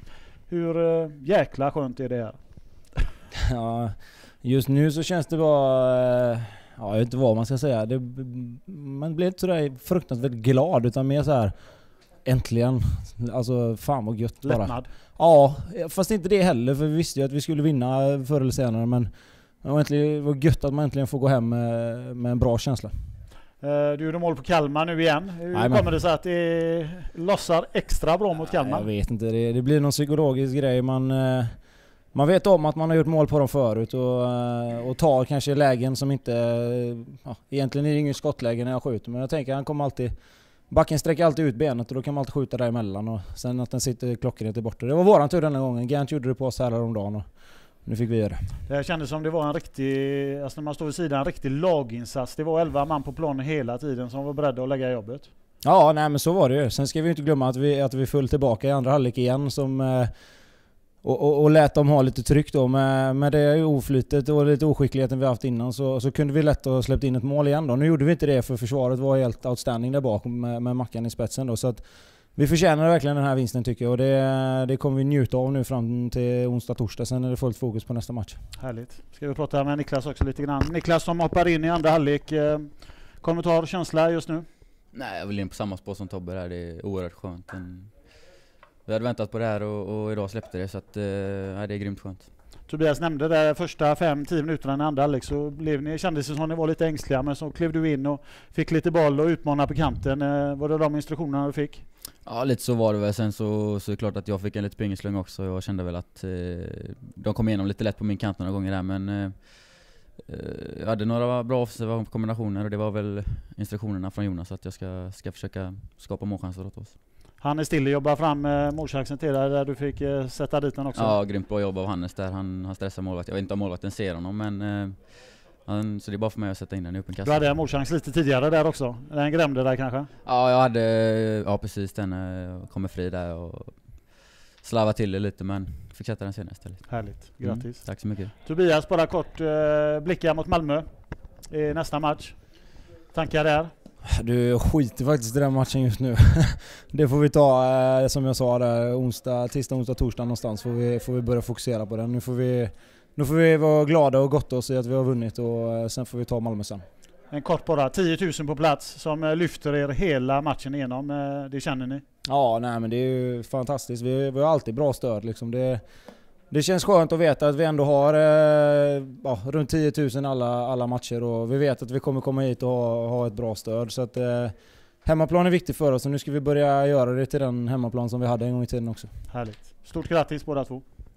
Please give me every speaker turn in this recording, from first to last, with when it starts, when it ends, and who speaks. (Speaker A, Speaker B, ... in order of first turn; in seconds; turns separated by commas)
Speaker A: 0.5-2.4, Speaker B: 3.5-11.5, Speaker B: 12.2-19.1, Speaker A: 14.4-14.9, Speaker B: 19.6-22.9, Speaker A: 23.6-28.9, Speaker B: 25.5-25.9, Speaker B: 28.6-31.6, Speaker B: 32.1-40.1, Speaker B: 40.7-47.3, Speaker B: 47.8-48.5, Speaker A: 48.7-55.3, Speaker B: 55.6-60.1, Speaker B: 61.0-78.4, Speaker A: 78.6-84.5, Speaker C: 84.9-88.3, Speaker C: 88.8-92.3, Speaker A: 92.7-101.8, Speaker C: 102.2-116.9, Speaker A: 117.4-121.2, Speaker C: 120.9-127.5, Speaker A: 127.2-130.1, Speaker C: 130.2-138.3, Speaker A: 136.9-143.7, Speaker B: 144.0-156.8, Speaker A: 157.3-162.0, Speaker B: 162.2-165.8, Speaker B: 166.5-179.1, Speaker A: 179.3-180.8